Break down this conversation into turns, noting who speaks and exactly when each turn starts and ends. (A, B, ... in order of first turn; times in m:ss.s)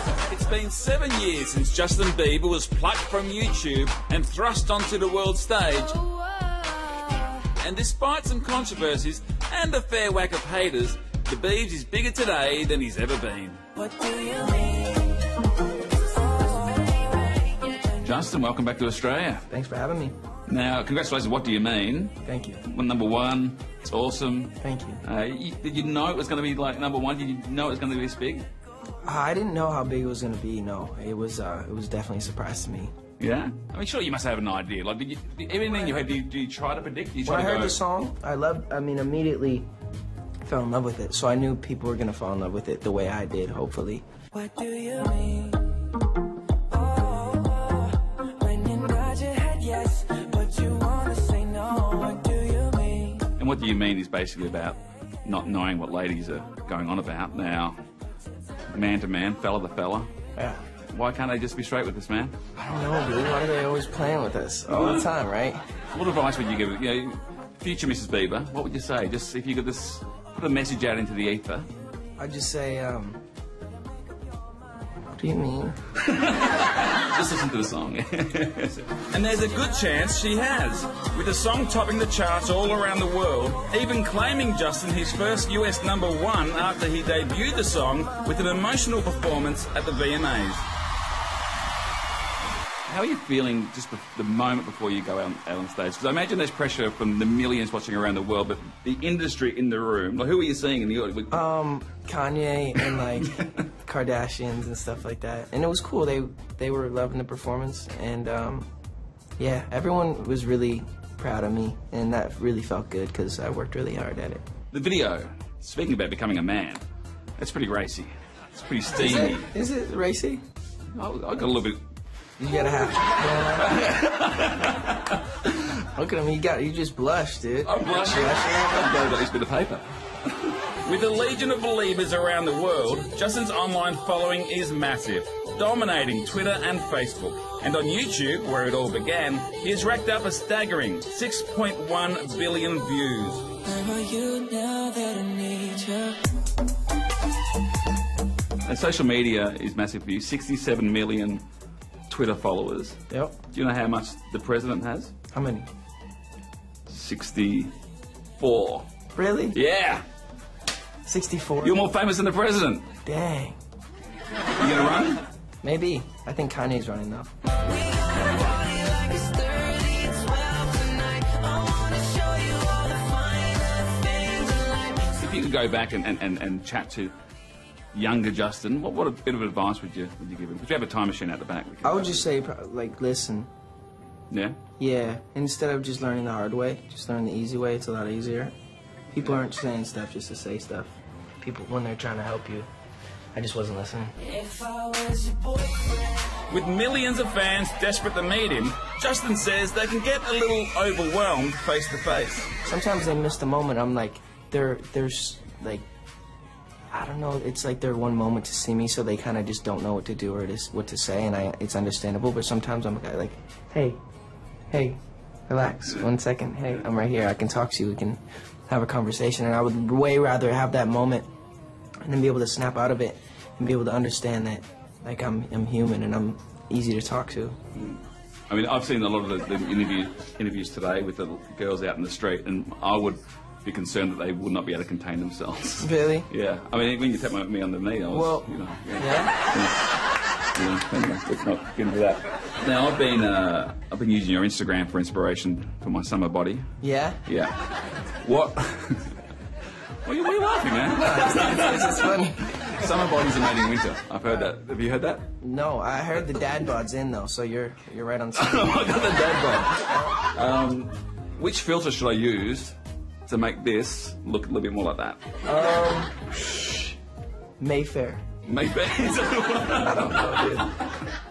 0:00.2-0:06.2 A
0:07.6-0:13.6 A
0:13.8-0:15.3 B
0:16.1-0:17.6 B
0:17.9-0:19.5 A
0:19.5-0:20.1 C
0:20.5-0:28.4 A
0:22.2-0:22.6 C
0:24.6-0:25.0 C
0:29.0-0:32.9 C
0:33.2-0:37.8 A
0:37.2-0:39.7 C
0:40.4-0:44.1 C
0:44.3-0:45.7 B
0:46.7-0:53.3 B
0:53.3-0:57.8 A
0:58.7-1:00.1 A
1:00.4-1:00.6 C
1:00.9-1:02.4 A
1:02.6-1:05.6 C
1:04.7-1:05.1 A
1:05.9-1:11.7 A
1:12.2-1:13.2 C
1:15.1-1:15.8 C
1:16.0-1:30.6 A
1:32.8-1:41.4 A
1:41.3-1:48.7 C
1:49.4-1:54.4 C
1:54.7-1:56.8 A
1:57.4-1:59.5 A
1:58.9-2:00.4 C
2:00.9-2:01.8 A
2:02.4-2:03.8 C
2:03.1-2:05.5 A
2:05.9-2:08.9 C
2:07.6-2:23.6 A
2:23.6-2:26.3 B
2:28.6-2:31.4 A
2:32.1-2:33.0 A
2:33.1-2:33.4 C
2:33.5-2:35.1 A
2:35.3-2:35.7 C
2:36.9-2:37.7 A
2:38.4-2:38.9 A
2:39.1-2:39.6 C
2:39.5-2:40.0 A
2:41.0-2:41.8 C
2:41.6-2:42.9 A
2:43.0-2:43.6 C
2:44.6-2:45.3 A
2:45.6-2:47.3 C
2:47.7-2:55.1 B
2:55.1-2:57.1 A
2:57.9-3:02.3 A
3:01.8-3:03.5 C
3:04.3-3:04.6 A
3:04.8-3:08.5 C
3:09.1-3:12.7 C
3:13.3-3:14.3 C
3:14.3-3:16.1 B
3:16.5-3:22.6 A
3:22.6-3:25.8 C
3:26.9-3:34.0 C
3:34.7-3:41.3 C
3:42.0-3:47.6 C
3:47.7-4:06.7 A
3:55.8-3:56.3 C
3:58.1-3:59.4 C
4:06.8-4:07.2 C
4:07.2-4:09.2 A
4:10.0-4:15.3 A
4:11.0-4:12.6 C
4:15.4-4:18.8 C
4:18.4-4:25.2 A
4:25.4-4:26.2 C
4:27.6-4:28.2 C
4:28.4-4:30.9 A
4:30.1-4:30.5 C